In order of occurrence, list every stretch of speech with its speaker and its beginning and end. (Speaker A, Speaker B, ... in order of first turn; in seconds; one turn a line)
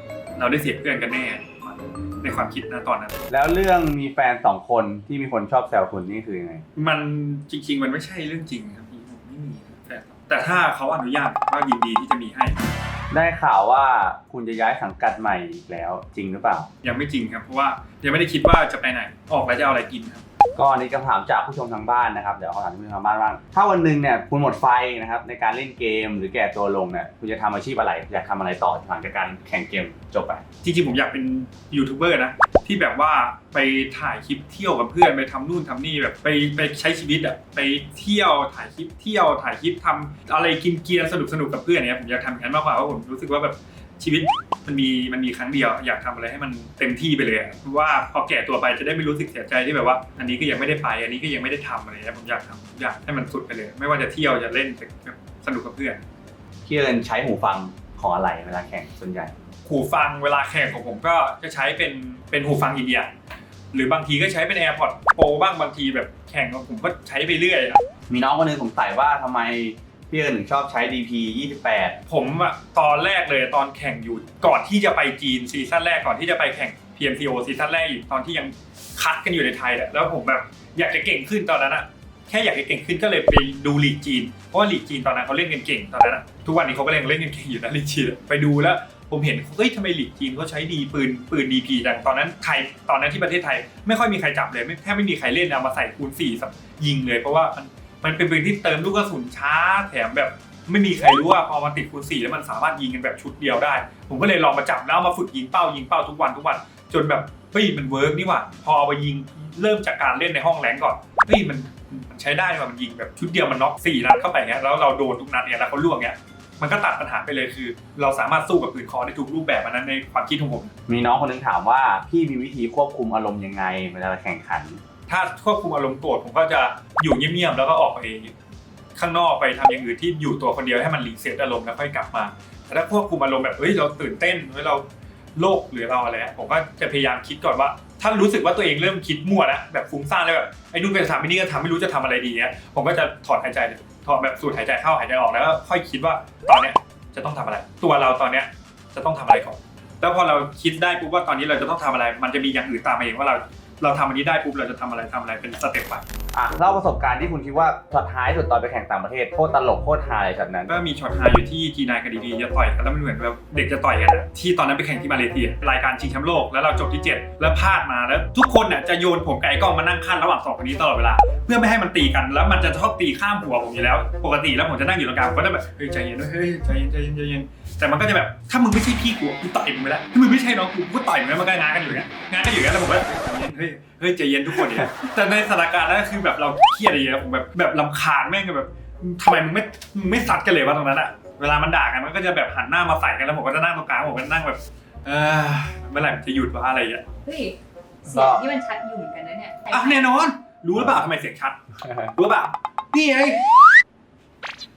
Speaker A: 0.4-3.2
Speaker B: 3.3-6.6
Speaker A: 6.8-12.6
Speaker B: 13.1-16.7
Speaker A: 16.8-20.2
Speaker B: 20.6-30.4
Speaker A: 30.6-56.0
Speaker B: 56.6-59.4
Speaker A: 59.6-63.1
Speaker A: 63.7-67.8
Speaker B: 68.1-72.0
Speaker A: 72.1-120.7
Speaker B: 120.9-124.8
Speaker A: 125.1-128.3
Speaker A: 128.9-156.0
Speaker B: 156.3-160.7
Speaker A: 160.7-197.1
Speaker C: 197.2-200.1
Speaker B: 198.1-198.4
Speaker A: 199.7-201.6
Speaker A: 202.1-203.4